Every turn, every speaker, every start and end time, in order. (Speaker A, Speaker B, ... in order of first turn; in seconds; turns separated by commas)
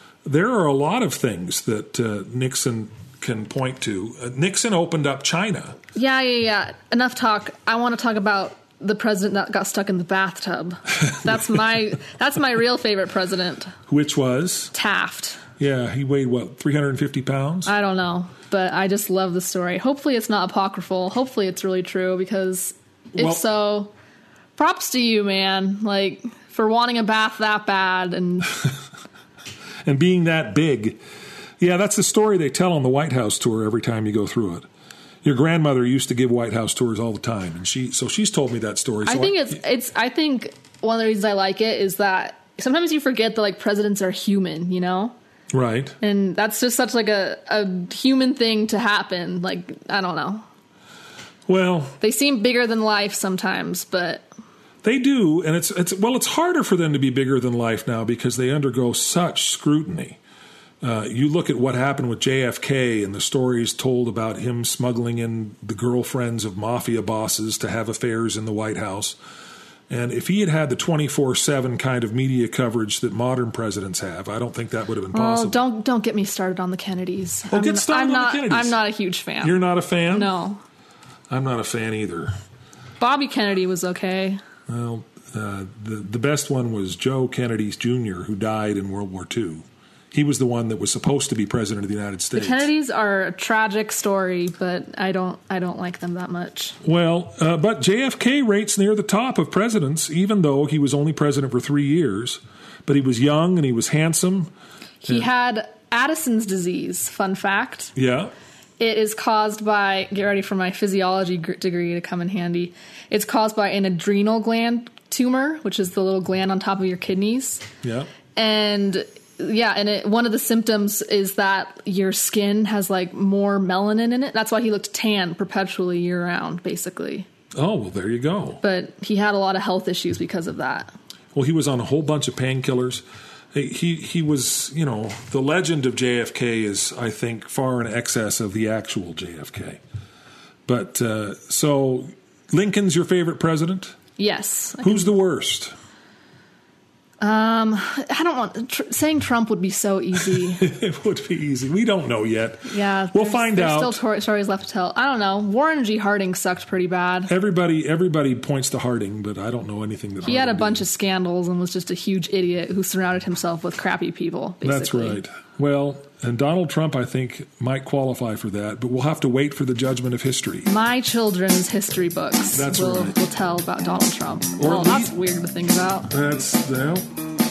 Speaker A: 0.2-5.8, Speaker B: 5.9-13.7, Speaker A: 13.9-14.7, Speaker B: 14.7-15.4, Speaker A: 15.6-17.7, Speaker B: 17.7-23.9, Speaker A: 23.1-23.4, Speaker B: 24.6-28.7, Speaker A: 29.8-31.0, Speaker A: 31.6-34.7, Speaker A: 35.2-39.6, Speaker B: 39.0-45.1, Speaker A: 45.5-46.0, Speaker B: 46.0-50.5, Speaker A: 51.5-52.0, Speaker B: 52.0-54.2, Speaker A: 54.8-60.2, Speaker A: 60.8-69.2, Speaker A: 69.9-75.6, Speaker B: 75.1-80.6, Speaker A: 77.5-78.8, Speaker A: 79.4-80.3, Speaker A: 81.3-82.3, Speaker B: 83.0-84.4, Speaker A: 84.7-92.7, Speaker B: 92.3-96.8, Speaker A: 96.8-104.5, Speaker B: 105.0-107.9, Speaker A: 108.0-108.3, Speaker B: 108.8-117.6, Speaker A: 117.8-118.1, Speaker B: 118.3-127.3, Speaker A: 127.5-128.6, Speaker B: 128.6-130.9, Speaker A: 131.3-139.8, Speaker A: 140.7-144.0, Speaker B: 144.2-145.1, Speaker A: 144.8-145.7, Speaker B: 147.2-150.6, Speaker A: 150.3-154.0, Speaker B: 152.7-157.3, Speaker A: 157.3-160.8, Speaker B: 160.2-165.2, Speaker A: 164.6-170.7, Speaker B: 170.7-176.1, Speaker A: 172.5-173.2, Speaker A: 174.6-175.1, Speaker A: 176.1-177.1